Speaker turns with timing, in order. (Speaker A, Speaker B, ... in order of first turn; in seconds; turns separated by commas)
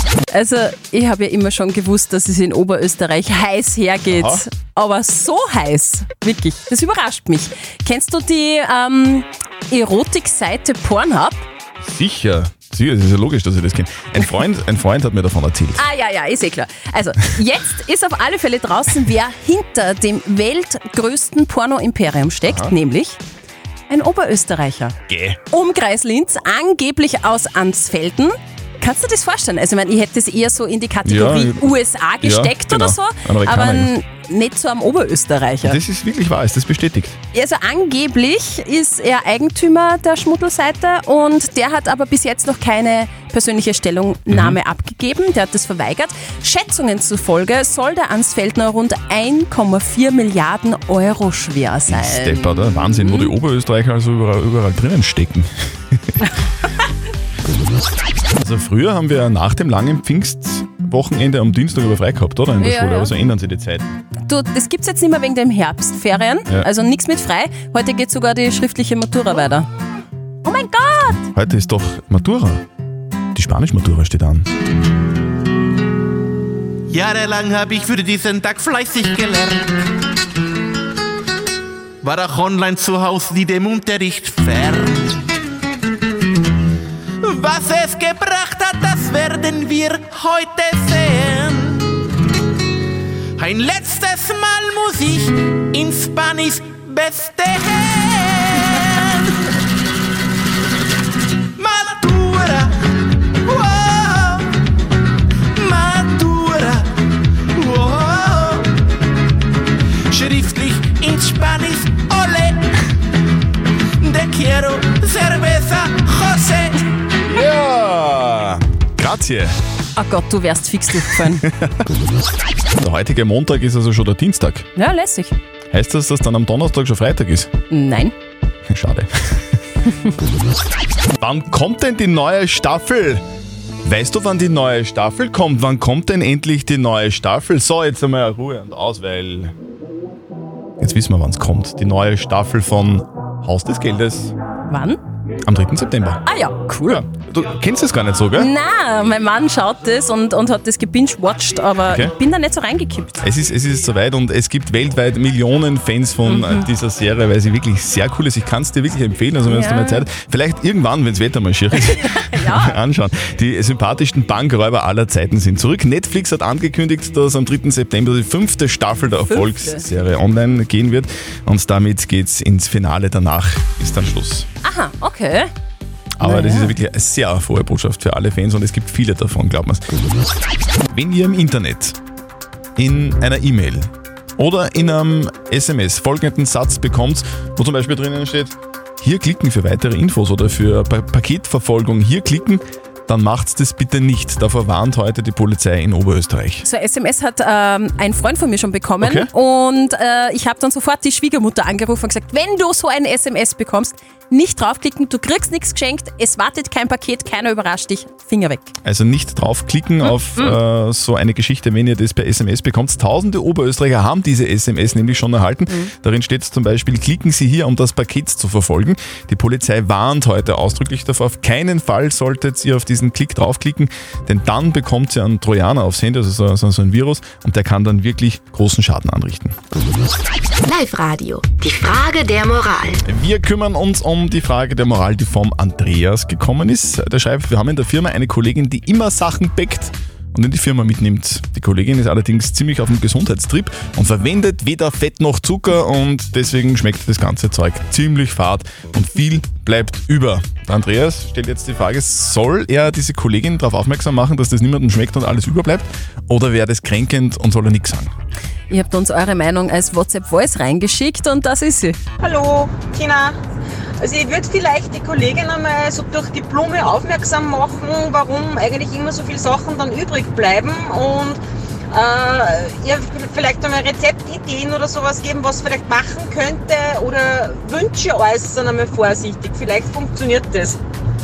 Speaker A: 0.3-11.4, Speaker B: 4.1-4.5, Speaker B: 11.8-15.8, Speaker A: 15.8-23.2, Speaker B: 22.5-22.7, Speaker A: 23.9-25.0, Speaker B: 25.1-25.4, Speaker A: 25.5-35.8, Speaker B: 31.1-31.7, Speaker B: 32.2-33.9, Speaker B: 35.6-37.2, Speaker A: 37.3-53.3, Speaker B: 44.3-44.6, Speaker B: 51.9-56.3, Speaker B: 58.4-63.9, Speaker A: 62.6-63.1, Speaker A: 64.3-69.7, Speaker A: 70.4-71.2, Speaker B: 71.3-72.6, Speaker B: 73.3-74.5, Speaker C: 76.9-79.7, Speaker C: 82.0-85.2, Speaker C: 87.2-92.0, Speaker C: 93.4-99.3, Speaker C: 101.6-102.8, Speaker C: 103.4-104.5, Speaker C: 105.5-106.9, Speaker C: 107.5-108.7, Speaker C: 110.1-112.7, Speaker C: 114.0-116.8, Speaker B: 117.3-119.6, Speaker A: 120.0-121.5, Speaker B: 122.8-124.7, Speaker A: 124.8-125.4, Speaker B: 125.7-127.5, Speaker A: 127.7-128.1, Speaker B: 128.7-129.5, Speaker B: 131.2-133.2, Speaker B: 133.8-139.5, Speaker B: 140.8-144.3, Speaker A: 144.7-145.0, Speaker B: 145.4-146.2, Speaker A: 146.2-147.0, Speaker B: 146.9-148.5, Speaker A: 148.3-153.3, Speaker B: 151.9-152.1, Speaker B: 153.2-174.5, Speaker A: 156.2-156.7, Speaker A: 159.5-160.1, Speaker A: 161.8-162.8, Speaker A: 169.2-169.8, Speaker A: 174.6-175.5, Speaker B: 176.2-179.9, Speaker A: 176.2-176.7, Speaker B: 180.9-182.0, Speaker B: 182.8-196.7, Speaker A: 196.6-208.8, Speaker B: 199.0-199.3, Speaker B: 208.8-229.6, Speaker D: 230.7-233.0, Speaker B: 233.1-258.1, Speaker A: 258.7-262.0, Speaker E: 262.2-263.4, Speaker E: 264.0-271.4, Speaker E: 271.9-280.8